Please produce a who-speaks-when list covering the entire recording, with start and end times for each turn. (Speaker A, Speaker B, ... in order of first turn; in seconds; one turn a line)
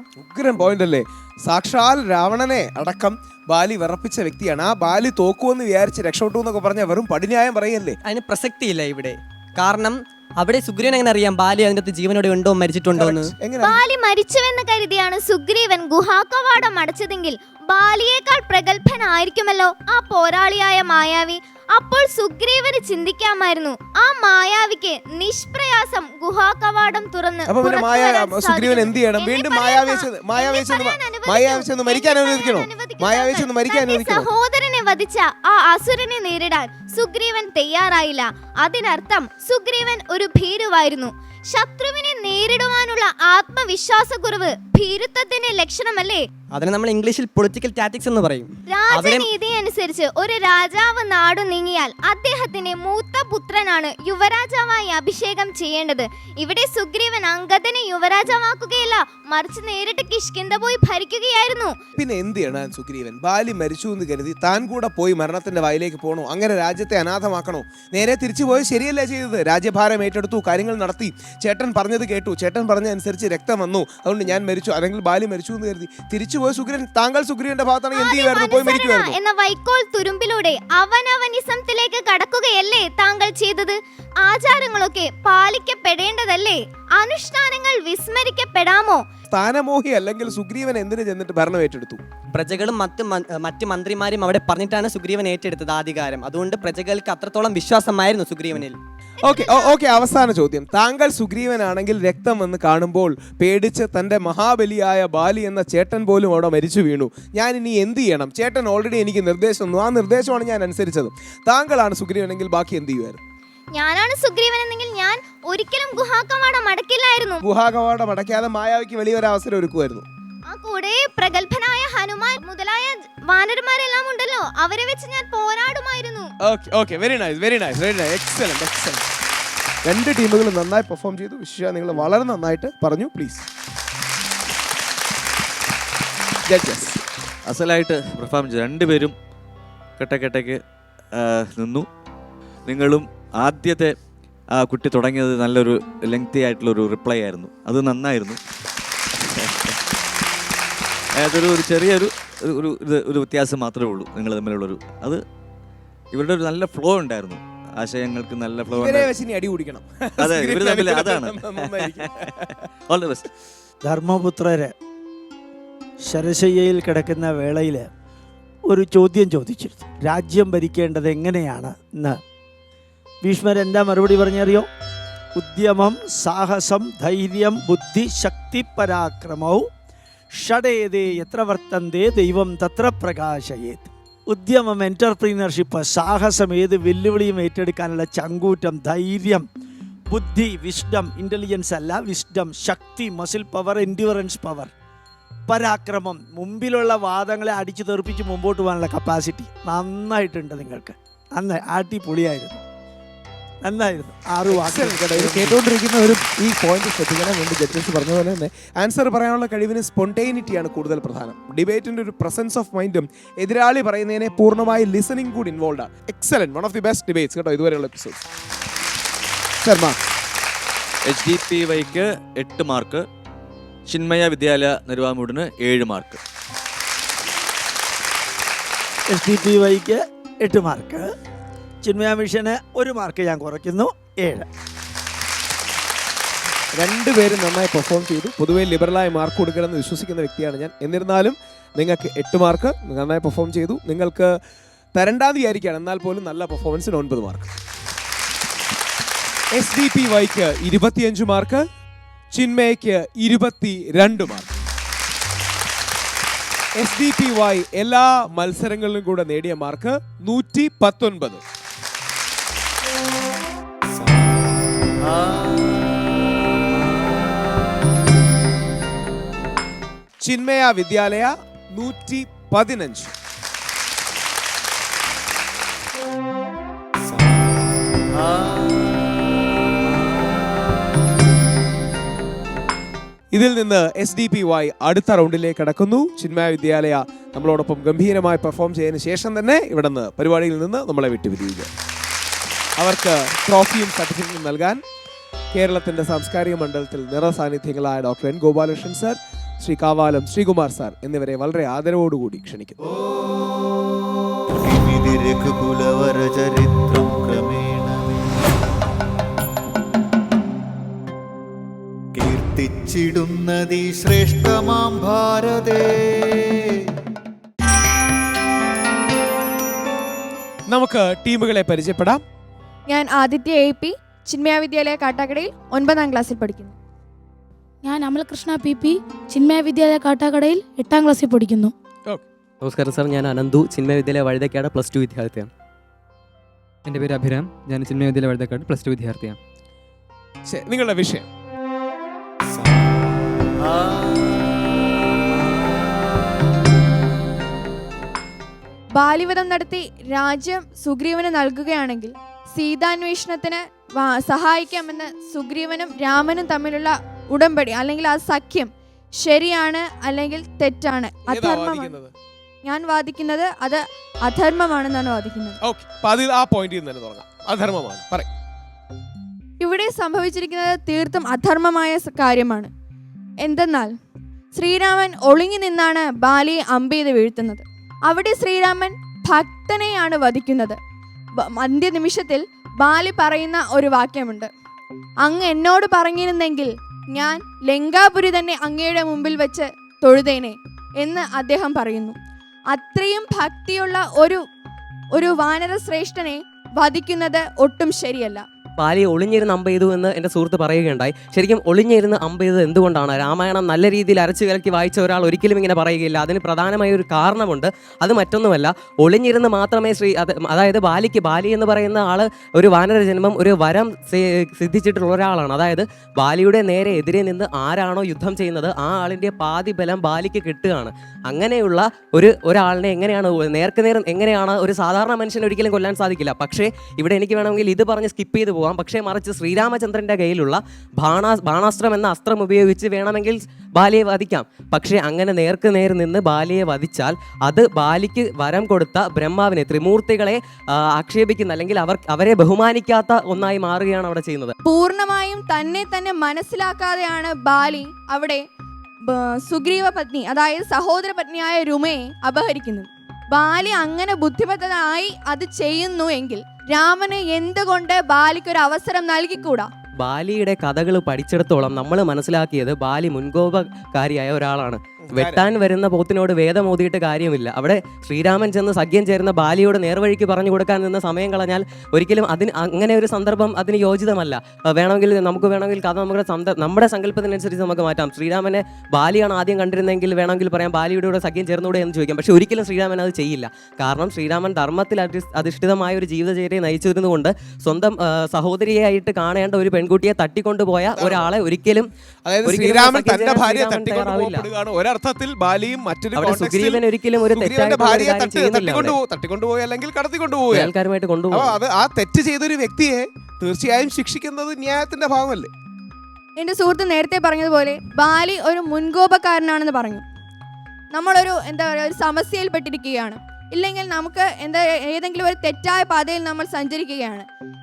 Speaker A: 0.2-8.0
Speaker B: 8.0-13.3
Speaker A: 12.9-13.8
Speaker C: 13.6-46.2
Speaker A: 27.5-34.3
Speaker B: 46.5-49.2
Speaker C: 48.7-61.8
Speaker A: 62.0-79.2
Speaker C: 77.9-89.0
Speaker A: 89.3-92.0
Speaker B: 92.3-98.8
Speaker A: 99.2-113.2
Speaker C: 99.2-99.8
Speaker C: 113.7-117.4
Speaker A: 117.4-120.0
Speaker C: 120.5-126.3
Speaker A: 126.4-129.0
Speaker A: 129.8-133.4
Speaker A: 136.5-137.0
Speaker D: 137.5-139.1
Speaker D: 140.0-140.6
Speaker D: 141.1-141.9
Speaker D: 142.7-143.9
Speaker D: 144.5-148.4
Speaker D: 149.1-149.8
Speaker D: 151.2-155.2
Speaker D: 156.1-159.1
Speaker A: 158.7-162.5
Speaker D: 160.2-162.3
Speaker D: 162.9-163.2
Speaker E: 163.8-164.7
Speaker E: 166.1-167.8
Speaker E: 168.7-172.2
Speaker E: 173.2-174.7
Speaker E: 175.3-179.7
Speaker E: 180.4-189.4
Speaker E: 190.1-194.7
Speaker E: 195.5-202.6
Speaker E: 203.6-205.6
Speaker A: 204.5-218.2
Speaker A: 219.6-219.9
Speaker D: 221.1-223.1
Speaker D: 223.9-226.2
Speaker E: 229.1-231.1
Speaker E: 231.8-234.5
Speaker A: 236.8-244.3
Speaker A: 244.9-247.5
Speaker A: 249.5-251.6
Speaker A: 252.3-254.5
Speaker A: 256.8-261.4
Speaker A: 270.2-273.1
Speaker A: 283.3-291.7
Speaker A: 292.8-294.8
Speaker A: 295.5-302.7
Speaker F: 304.6-308.4
Speaker F: 312.1-316.5
Speaker A: 320.7-322.2
Speaker G: 322.9-326.7
Speaker H: 327.8-331.7
Speaker I: 332.6-335.5
Speaker J: 336.9-339.4
Speaker A: 340.5-341.3
Speaker G: 348.9-361.9
Speaker A: 361.3-362.1
Speaker G: 362.6-365.6
Speaker A: 365.6-368.3
Speaker G: 369.6-372.7
Speaker G: 373.4-373.9
Speaker G: 374.5-380.8
Speaker G: 381.4-384.5
Speaker G: 385.2-392.1
Speaker G: 392.7-394.4
Speaker G: 395.1-398.4
Speaker I: 398.8-444.5
Speaker G: 444.6-448.4
Speaker G: 449.0-459.7
Speaker I: 460.0-491.9
Speaker A: 465.1-465.4
Speaker A: 490.9-491.3
Speaker A: 492.2-500.7
Speaker I: 492.4-494.4
Speaker I: 496.1-498.9
Speaker I: 500.5-501.6
Speaker A: 501.3-505.5
Speaker G: 506.4-510.0
Speaker G: 510.9-517.3